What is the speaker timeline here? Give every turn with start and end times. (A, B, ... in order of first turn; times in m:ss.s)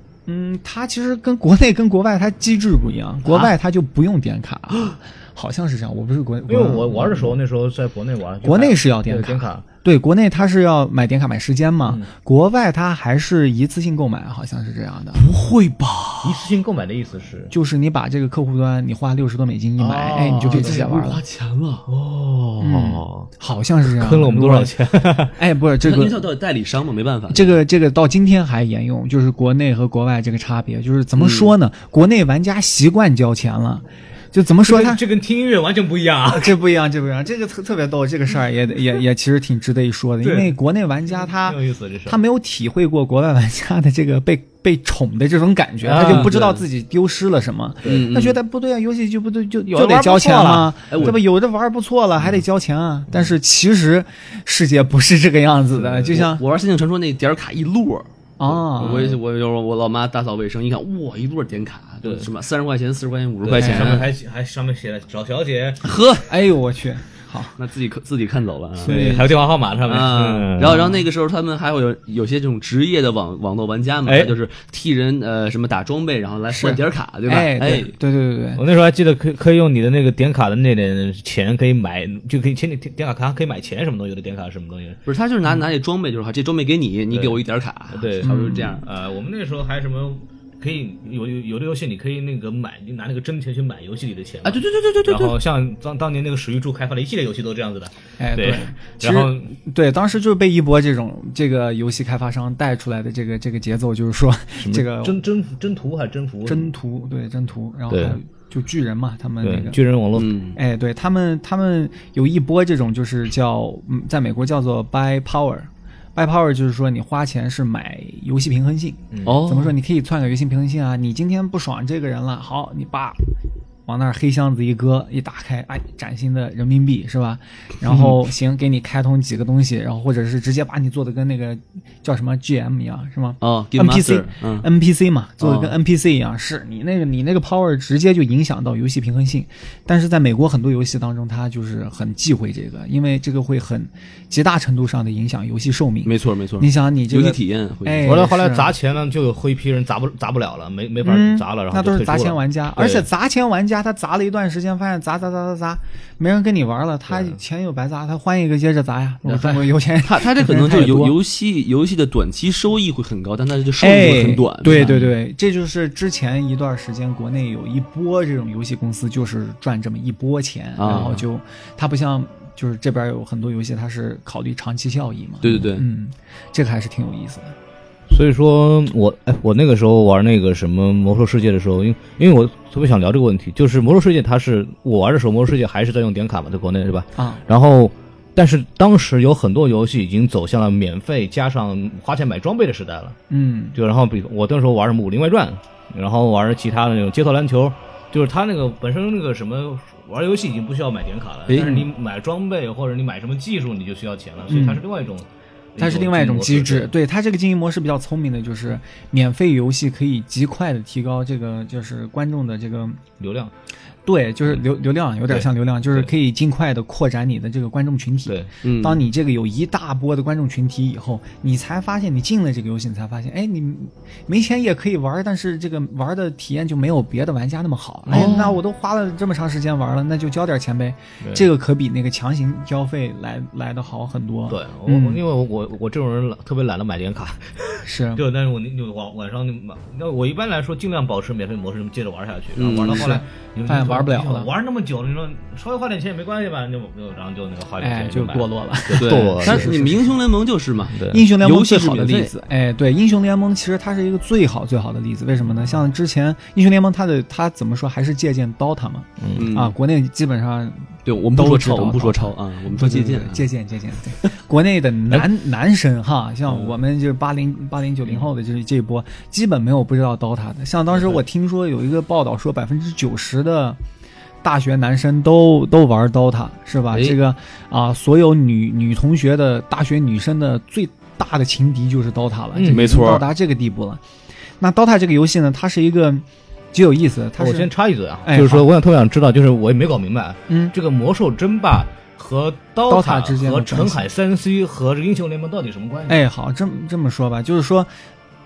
0:00.3-0:07.4 A
0:06.5-0:09.6 B
0:08.4-0:15.2 A
0:15.2-0:16.5 C
0:16.2-0:17.5 B
0:17.5-0:21.2 A
0:19.8-0:20.9 B
0:20.1-0:21.9 C
0:21.9-0:23.3 B
0:22.6-0:24.8 A
0:23.9-0:25.3 B
0:25.3-0:26.3 A
0:25.8-0:27.6 C
0:27.3-0:35.0 A
0:31.2-0:31.5 C
0:34.6-0:36.6 B
0:36.3-0:56.4 A
0:40.2-0:40.6 B
0:41.2-0:42.2 B
0:45.8-0:46.4 B
0:45.9-0:46.6 C
0:47.8-0:48.1 B
0:47.8-0:48.4 C
0:49.7-0:51.2 B
0:50.9-0:51.2 C
0:56.1-1:04.1 C
0:58.4-0:59.2 A
0:58.8-0:59.1 B
1:02.0-1:02.3 B
1:03.4-1:05.9 B
1:03.6-1:04.1 A
1:05.8-1:06.3 C
1:06.3-1:07.6 A
1:07.6-1:09.2 C
1:08.8-1:09.4 A
1:08.8-1:10.9 B
1:09.9-1:17.9 C
1:10.7-1:11.0 A
1:14.1-1:14.4 B
1:16.5-1:18.6 A
1:18.6-1:25.0 B
1:25.1-1:28.8 C
1:27.1-1:27.4 B
1:27.9-1:39.5 B
1:28.2-1:28.8 A
1:34.4-1:35.4 C
1:38.2-1:45.2 A
1:44.6-1:46.7 B
1:46.4-1:49.8 A
1:47.9-1:48.2 B
1:49.4-1:50.3 B
1:50.2-1:50.6 C
1:50.6-2:03.2 A
1:59.1-1:59.4 B
1:59.2-1:59.7 C
2:03.9-2:28.7 A
2:07.9-2:08.2 C
2:13.4-2:14.7 C
2:15.4-2:15.8 C
2:26.0-2:28.3 C
2:28.0-2:33.1 B
2:31.0-2:41.2 A
2:37.1-2:37.4 B
2:39.2-2:45.2 C
2:43.8-2:57.6 A
2:50.8-2:51.2 C
2:55.4-2:55.8 C
2:58.1-3:13.2 B
3:07.2-3:07.4 A
3:13.3-3:13.8 A
3:13.8-3:26.9 B
3:21.5-3:21.8 C
3:24.5-3:24.8 A
3:25.8-3:33.0 A
3:33.2-3:33.5 B
3:34.1-3:55.2 A
3:35.3-3:36.1 B
3:38.6-3:39.0 C
3:48.1-3:48.4 B
3:48.1-3:48.6 C
3:51.2-3:51.5 B
3:54.5-4:09.8 B
3:57.8-3:58.2 A
4:02.6-4:03.2 C
4:02.9-4:04.5 A
4:07.8-4:10.2 A
4:08.9-4:12.3 C
4:10.9-4:11.3 B
4:11.1-4:33.8 A
4:19.2-4:19.5 B
4:19.4-4:19.8 C
4:21.0-4:23.5 C
4:34.4-4:44.0 A
4:36.9-4:37.2 C
4:42.5-4:42.9 B
4:42.7-4:43.2 C
4:44.6-4:47.7 A
4:47.4-4:56.2 B
4:48.2-4:48.7 A
4:50.5-4:50.8 A
4:52.9-4:54.1 A
4:56.1-4:57.9 A